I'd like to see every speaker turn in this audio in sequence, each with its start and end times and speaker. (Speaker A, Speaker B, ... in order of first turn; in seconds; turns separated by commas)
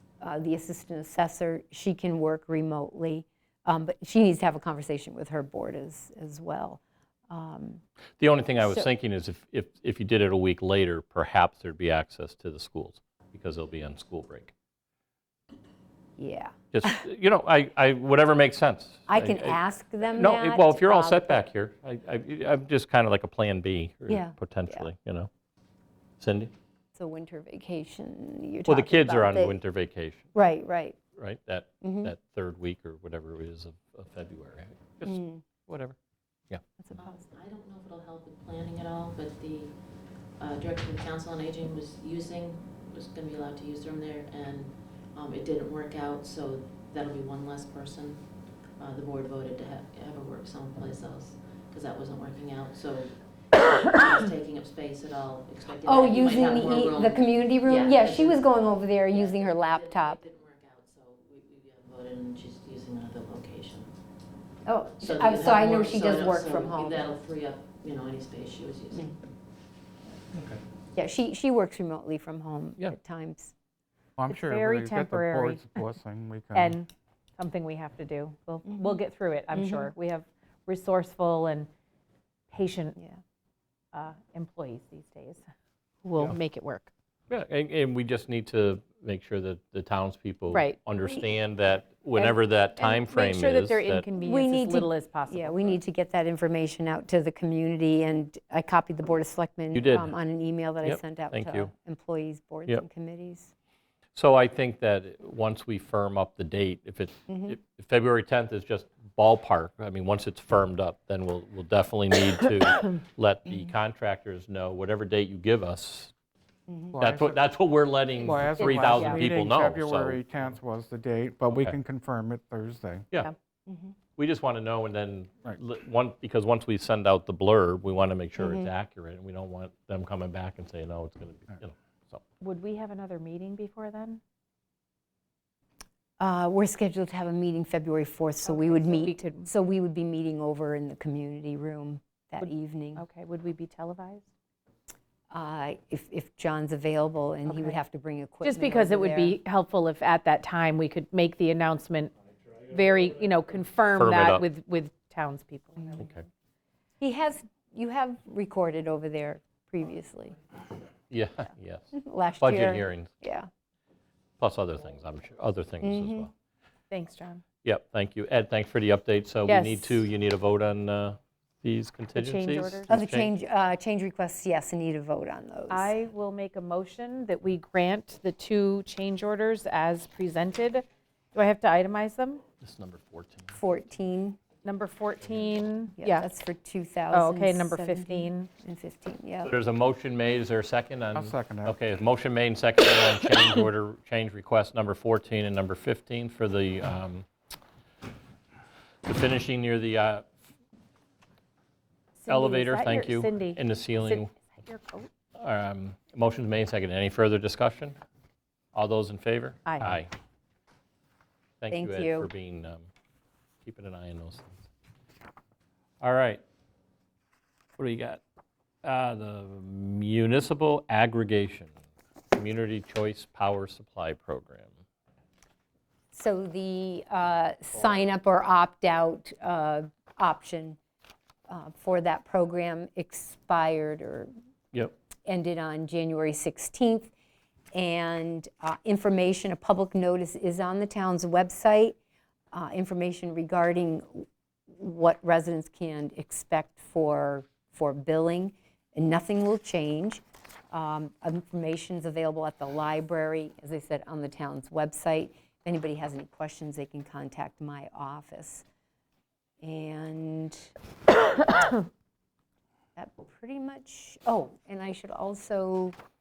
Speaker A: 0.2-7.8, Speaker B: 8.2-14.5, Speaker A: 8.6-8.9, Speaker A: 16.2-16.9, Speaker B: 16.7-25.3, Speaker A: 19.1-21.4, Speaker A: 24.1-24.9, Speaker B: 26.2-26.5, Speaker A: 26.9-29.6, Speaker B: 28.7-30.3, Speaker A: 30.3-31.0, Speaker B: 31.2-36.0, Speaker A: 31.8-32.1, Speaker A: 35.0-35.4, Speaker A: 36.8-37.3, Speaker C: 37.0-39.8, Speaker C: 40.4-64.0, Speaker A: 55.8-60.2, Speaker A: 64.7-67.1, Speaker C: 65.0-69.4, Speaker A: 71.0-73.5, Speaker D: 74.2-76.8, Speaker E: 74.3-75.7, Speaker E: 76.5-81.7, Speaker A: 78.7-79.0, Speaker A: 79.5-79.9, Speaker E: 82.5-83.0, Speaker E: 83.9-85.4, Speaker E: 86.0-86.9, Speaker B: 87.3-94.1, Speaker E: 90.5-90.8, Speaker E: 92.2-95.7, Speaker A: 94.2-103.5, Speaker B: 99.7-100.2, Speaker B: 100.8-101.7, Speaker B: 104.2-116.1, Speaker A: 107.3-107.6, Speaker A: 116.7-117.0, Speaker D: 116.9-117.4, Speaker B: 117.0-120.5, Speaker D: 118.2-123.1, Speaker E: 118.6-119.3, Speaker B: 121.5-121.8, Speaker A: 123.7-124.0, Speaker B: 124.2-132.2, Speaker A: 128.4-128.7, Speaker E: 132.4-134.2, Speaker A: 136.2-143.0, Speaker E: 138.5-139.5, Speaker E: 142.4-144.3, Speaker A: 145.3-149.3, Speaker E: 147.5-147.8, Speaker E: 148.4-156.2, Speaker B: 153.9-154.4, Speaker B: 156.0-156.2, Speaker A: 157.0-160.4, Speaker B: 161.1-163.1, Speaker A: 161.9-163.5, Speaker B: 164.4-166.3, Speaker A: 165.8-166.3, Speaker E: 166.9-167.4, Speaker B: 167.6-173.3, Speaker E: 169.4-170.0, Speaker E: 172.1-172.9, Speaker A: 172.9-175.9, Speaker E: 175.7-182.4, Speaker B: 182.6-183.6, Speaker A: 183.5-184.4, Speaker E: 184.6-186.3, Speaker A: 186.0-189.5, Speaker E: 187.1-188.5, Speaker B: 189.4-197.3, Speaker D: 191.1-191.8, Speaker B: 199.1-200.3, Speaker E: 202.2-205.1, Speaker B: 202.3-204.3, Speaker B: 205.4-208.0, Speaker B: 208.7-210.1, Speaker E: 209.7-210.0, Speaker B: 211.6-212.9, Speaker A: 211.7-212.3, Speaker B: 213.7-214.7, Speaker B: 216.0-216.4, Speaker B: 217.8-218.2, Speaker B: 218.8-221.7, Speaker B: 222.3-224.7, Speaker A: 226.1-230.8, Speaker A: 231.5-234.3, Speaker A: 235.3-237.1, Speaker A: 237.7-242.0, Speaker A: 242.5-258.6, Speaker A: 259.6-260.7, Speaker A: 263.0-266.0